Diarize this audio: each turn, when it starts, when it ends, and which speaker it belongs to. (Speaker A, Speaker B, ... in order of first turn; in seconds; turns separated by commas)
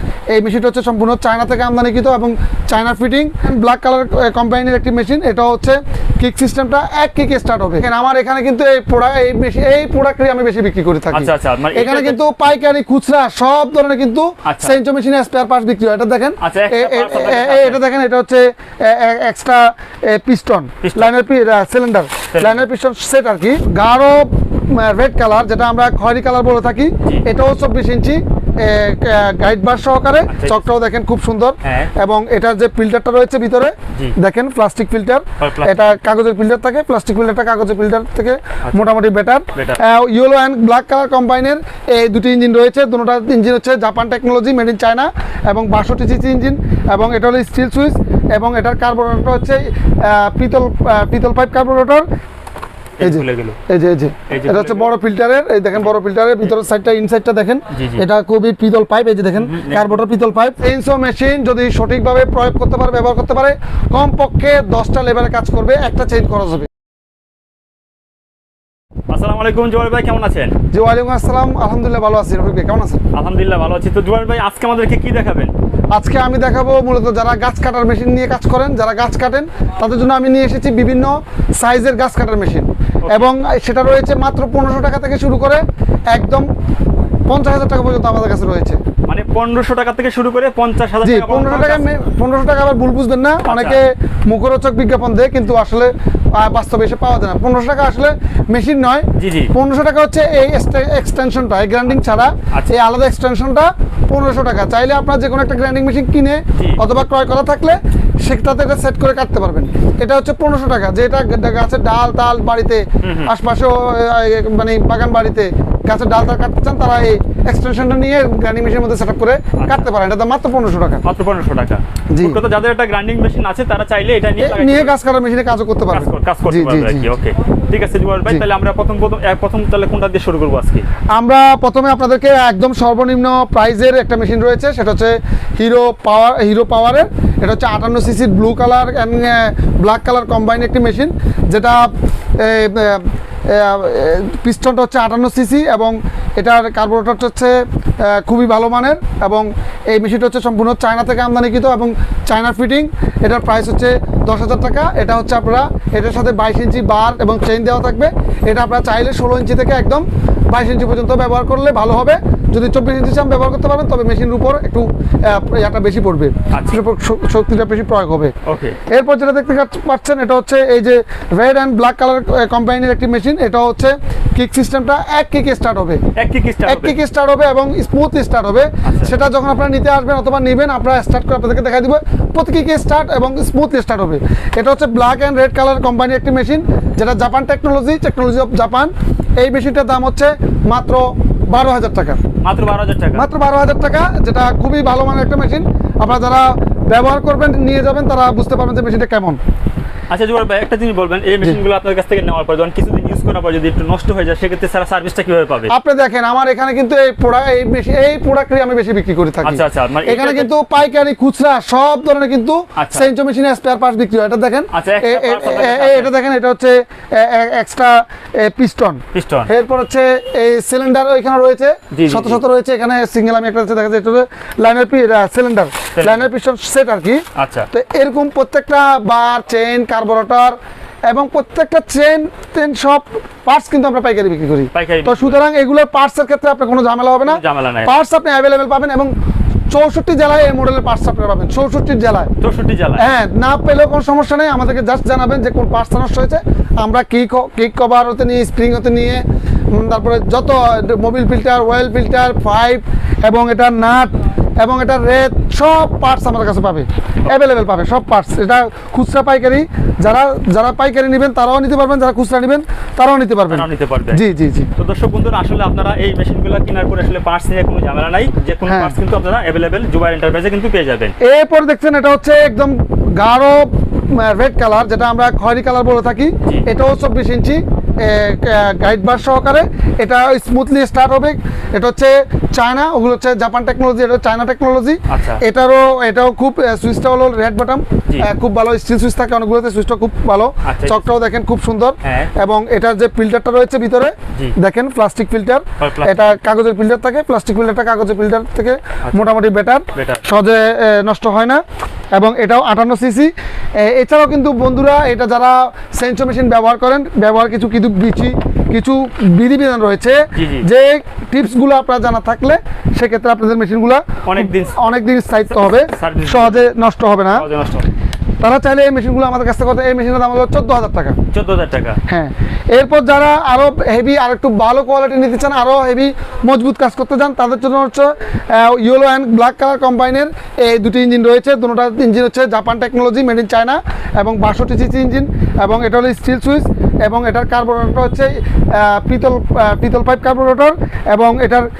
Speaker A: 0.3-52.0, Speaker B: 11.1-12.2, Speaker B: 14.4-14.8, Speaker B: 16.4-17.8, Speaker B: 20.8-21.1, Speaker B: 22.3-22.7, Speaker B: 30.3-30.6, Speaker B: 31.6-31.9, Speaker B: 35.4-36.0, Speaker B: 39.5-39.8, Speaker B: 53.0-53.6, Speaker A: 53.0-66.7, Speaker B: 54.3-54.9, Speaker B: 57.7-58.0, Speaker B: 59.4-60.0, Speaker B: 69.1-70.5, Speaker A: 70.7-73.0, Speaker B: 73.1-75.5, Speaker A: 75.9-86.5, Speaker A: 87.3-88.8, Speaker B: 89.1-92.0, Speaker A: 91.0-121.0, Speaker B: 93.5-93.8, Speaker B: 99.2-99.5, Speaker B: 106.5-106.8, Speaker B: 113.0-113.3, Speaker B: 119.6-119.9, Speaker B: 121.0-124.9, Speaker A: 122.1-122.4, Speaker A: 124.4-127.1, Speaker B: 125.9-130.8, Speaker A: 131.1-168.3, Speaker B: 166.5-166.8, Speaker B: 168.4-168.8, Speaker A: 168.8-176.0, Speaker B: 176.2-177.0, Speaker A: 176.7-192.2, Speaker B: 178.8-179.1, Speaker B: 192.4-193.2, Speaker A: 193.1-199.4, Speaker B: 200.1-205.7, Speaker A: 205.7-230.6, Speaker B: 209.4-210.5, Speaker B: 212.8-213.1, Speaker B: 214.7-216.1, Speaker B: 219.1-219.5, Speaker B: 221.9-222.4, Speaker B: 225.9-226.3, Speaker B: 227.3-227.7, Speaker A: 231.1-239.1, Speaker B: 234.7-235.4, Speaker B: 237.2-237.9, Speaker A: 239.7-242.3, Speaker B: 242.4-243.1, Speaker A: 243.0-264.7, Speaker B: 263.5-264.2, Speaker B: 264.8-271.1, Speaker A: 268.6-269.0, Speaker A: 271.2-301.6, Speaker B: 285.1-285.4, Speaker B: 290.6-291.1, Speaker B: 292.0-292.3, Speaker B: 295.8-296.4, Speaker B: 299.1-299.3, Speaker B: 299.9-300.2, Speaker A: 302.1-317.4, Speaker B: 310.3-310.7, Speaker B: 314.2-314.9, Speaker B: 315.5-316.7, Speaker B: 317.3-317.9, Speaker A: 318.4-321.2, Speaker B: 321.3-322.0, Speaker A: 322.1-341.7